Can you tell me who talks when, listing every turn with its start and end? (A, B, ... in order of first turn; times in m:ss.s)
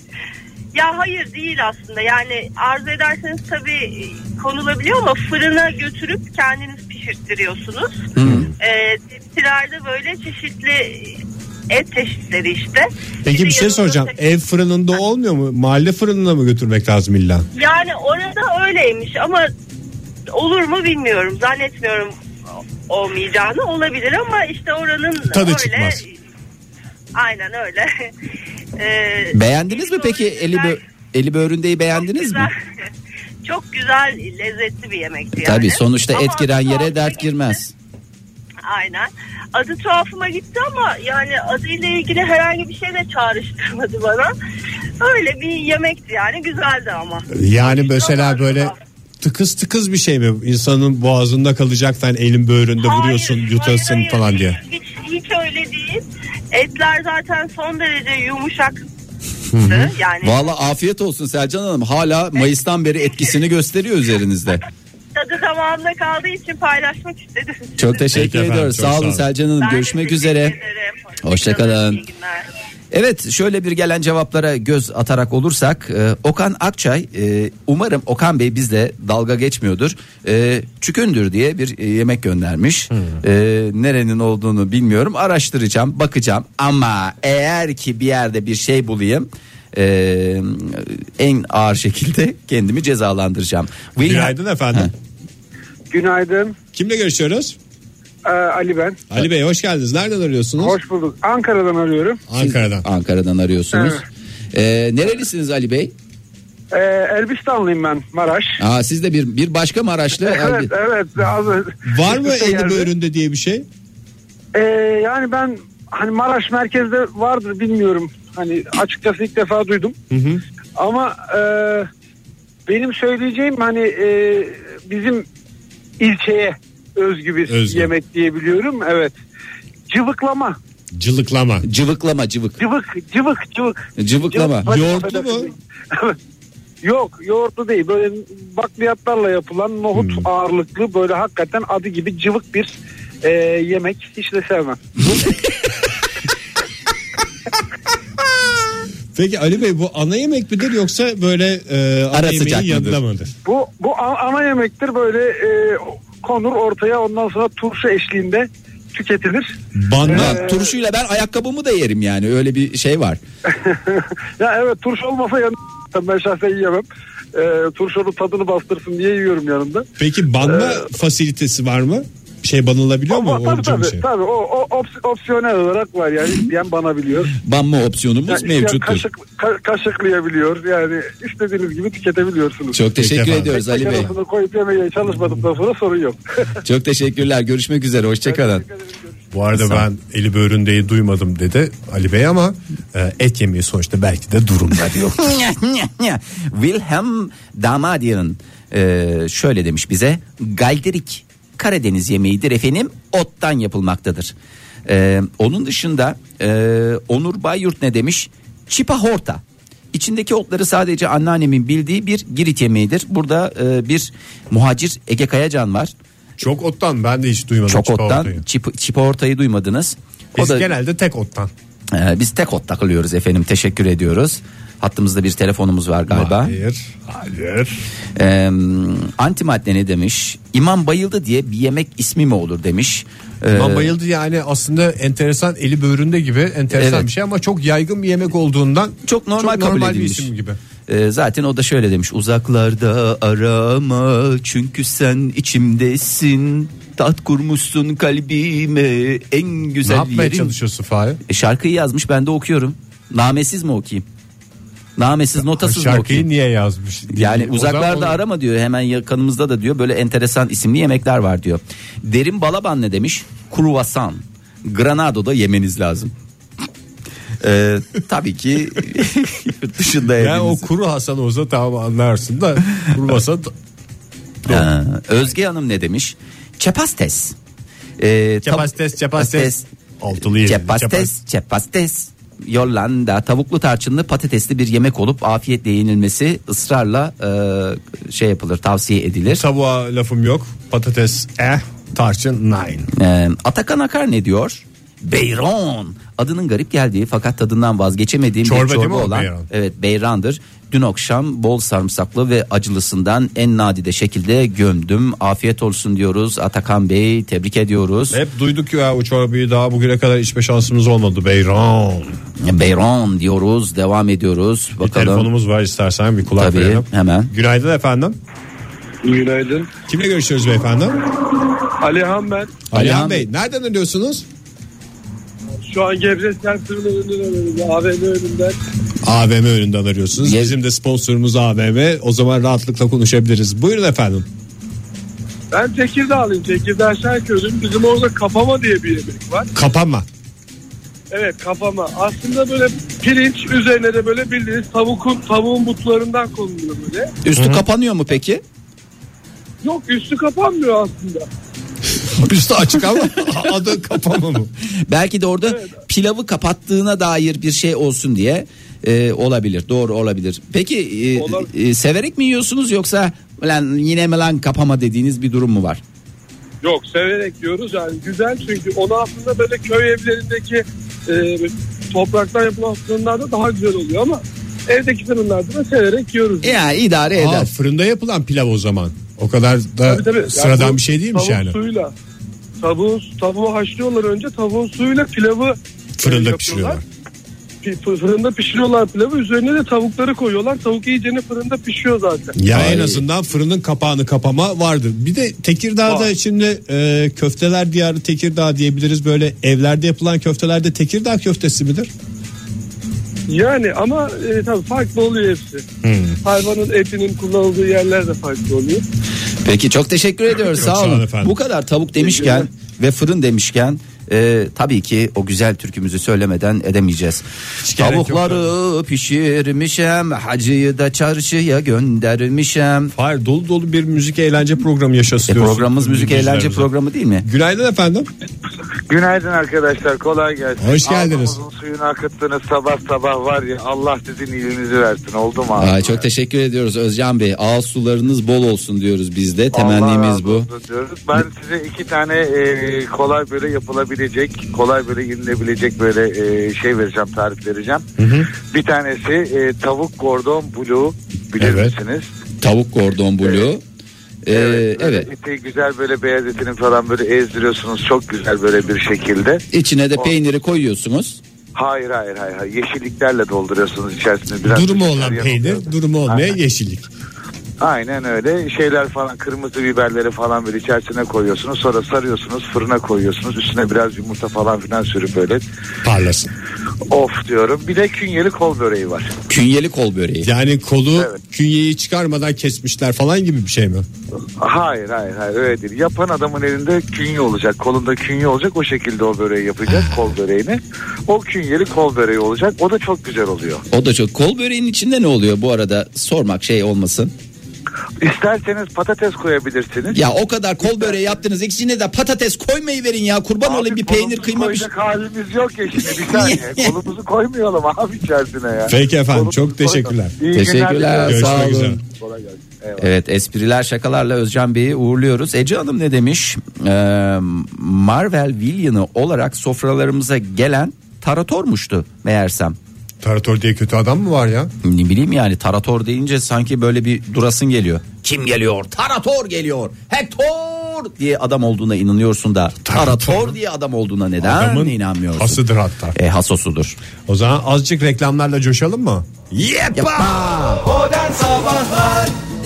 0:00.7-0:11.2 A
0:08.2-0:08.5 B
0:08.2-0:08.5 C
0:11.7-0:14.1 A
0:13.2-0:17.5 C
0:17.6-0:19.5 A
0:20.3-0:22.1 A
0:22.9-0:26.1 A
0:25.3-0:26.0 C
0:27.1-0:28.1 A
0:28.8-0:30.8 A
0:29.3-0:32.5 B
0:32.0-0:32.9 A
0:33.4-0:37.6 A
0:35.3-0:37.7 B
0:38.6-0:44.3 A
0:45.0-0:48.8 A
0:47.3-0:54.6 C
0:52.8-0:58.8 A
0:59.5-0:59.9 C
0:59.6-1:00.4 A
1:00.2-1:04.6 B
1:05.2-1:07.8 A
1:07.8-1:10.6 B
1:08.1-1:09.3 C
1:09.6-1:12.5 A
1:11.2-1:12.0 B
1:12.9-1:34.9 B
1:34.0-1:34.9 C
1:35.9-1:36.6 D
1:36.7-1:37.6 C
1:38.2-1:39.0 D
1:39.1-1:40.8 C
1:40.6-1:42.2 D
1:42.3-1:42.9 C
1:42.4-1:45.9 B
1:43.7-1:44.0 D
1:46.7-1:48.6 D
1:48.6-1:50.7 B
1:50.2-1:52.9 D
1:51.8-1:53.7 C
1:54.5-2:00.0 D
2:00.1-2:00.4 C
2:00.8-2:01.9 D
2:02.7-2:05.2 D
2:06.0-2:09.2 D
2:07.5-2:07.9 C
2:09.9-2:10.6 D
2:10.9-2:11.7 C
2:11.6-2:12.6 B
2:12.6-2:16.2 D
2:14.0-2:15.0 B
2:14.7-2:15.5 C
2:16.8-2:22.7 D
2:19.9-2:20.3 C
2:23.2-2:24.8 D
2:25.0-2:25.6 B
2:29.1-2:33.3 C
2:32.1-2:33.0 B
2:33.4-2:39.6 D
2:39.8-2:40.5 C
2:40.1-2:43.2 B
2:40.1-2:40.7 D
2:43.5-2:49.9 D
2:50.0-2:54.0 C
2:50.5-2:50.8 D
2:53.1-2:57.4 D
2:57.4-2:59.0 B
2:58.3-3:02.8 D
3:02.7-3:04.1 B
3:03.0-3:04.1 C
3:03.5-3:06.2 D
3:06.6-3:08.6 B
3:08.5-3:09.0 D
3:09.3-3:15.2 C
3:09.5-3:09.9 B
3:14.8-3:24.3 B
3:24.9-3:29.4 B
3:29.9-3:35.9 B
3:36.4-3:38.4 C
3:37.7-3:40.7 B
3:40.4-3:41.5 C
3:41.9-3:46.6 B
3:46.1-3:47.8 C
3:48.2-3:53.9 B
3:53.5-4:00.6 C
3:56.7-3:57.1 B
3:59.1-4:00.3 B
4:00.9-4:10.5 B
4:09.8-4:11.2 C
4:11.3-4:14.0 B
4:15.0-4:16.3 B
4:15.4-4:18.2 C
4:17.1-4:26.1 B
4:27.4-4:30.7 B
4:30.2-4:33.5 C
4:34.5-4:37.4 B
4:38.0-4:39.6 B
4:38.4-4:41.1 C
4:40.2-4:49.4 B
4:49.3-4:52.9 C
4:52.9-5:08.2 B
4:58.4-4:59.5 C
5:08.1-5:12.2 C
5:12.4-5:15.3 B
5:14.8-5:18.2 C
5:16.4-5:17.3 B
5:19.0-5:19.7 E
5:19.9-5:21.1 C
5:21.8-5:22.6 E
5:22.7-5:24.3 C
5:22.7-5:23.2 B
5:25.6-5:28.6 E
5:29.0-5:34.3 C
5:30.2-5:30.6 B
5:35.5-5:39.5 E
5:39.5-5:40.1 C
5:41.1-5:47.1 E
5:47.2-5:48.4 B
5:47.3-5:47.6 C
5:49.6-5:51.3 E
5:52.0-5:54.5 C
5:54.9-6:05.8 B
5:55.5-5:55.8 E
6:01.2-6:01.5 E
6:06.6-6:16.6 E
6:16.4-6:17.5 B
6:17.1-6:21.6 C
6:19.9-6:21.9 E
6:22.6-6:26.8 E
6:26.0-6:26.8 C
6:27.6-6:32.4 E
6:32.4-6:41.9 C
6:32.5-6:33.0 B
6:43.3-6:45.6 E
6:45.8-6:46.2 C
6:46.2-6:48.8 E
6:49.4-7:02.9 B
6:50.4-6:51.4 C
6:52.0-6:52.5 E
6:57.6-6:58.5 C
7:02.9-7:06.7 C
7:05.3-7:07.3 B
7:07.2-7:08.1 C
7:08.9-7:16.0 F
7:10.6-7:11.4 C
7:15.6-7:20.5 B
7:19.5-7:27.9 F
7:28.0-7:28.3 C
7:28.5-7:32.1 F
7:31.4-7:31.7 C
7:32.4-7:33.6 B
7:34.2-7:35.1 B
7:34.3-7:39.4 F
7:39.5-7:41.2 B
7:41.6-7:46.3 F
7:44.5-7:46.9 C
7:47.6-7:55.4 F
7:55.8-7:56.3 C
7:56.9-7:59.1 F
7:59.3-8:00.3 B
8:00.2-8:03.9 C
8:04.4-8:13.6 F
8:09.7-8:10.1 C
8:13.7-8:17.1 B
8:18.0-8:20.0 F
8:19.9-8:24.7 B
8:20.6-8:21.2 F
8:23.4-8:32.9 F
8:25.9-8:26.7 B
8:28.7-8:30.2 C
8:30.3-8:31.8 B
8:31.0-8:31.8 C
8:32.8-8:42.6 B
8:43.0-8:44.5 C
8:44.6-8:55.4 B
8:52.6-8:53.4 C
8:54.2-8:56.0 C
8:56.0-8:56.8 B
8:57.1-9:00.7 C
8:59.7-9:00.1 B
9:00.9-9:02.1 B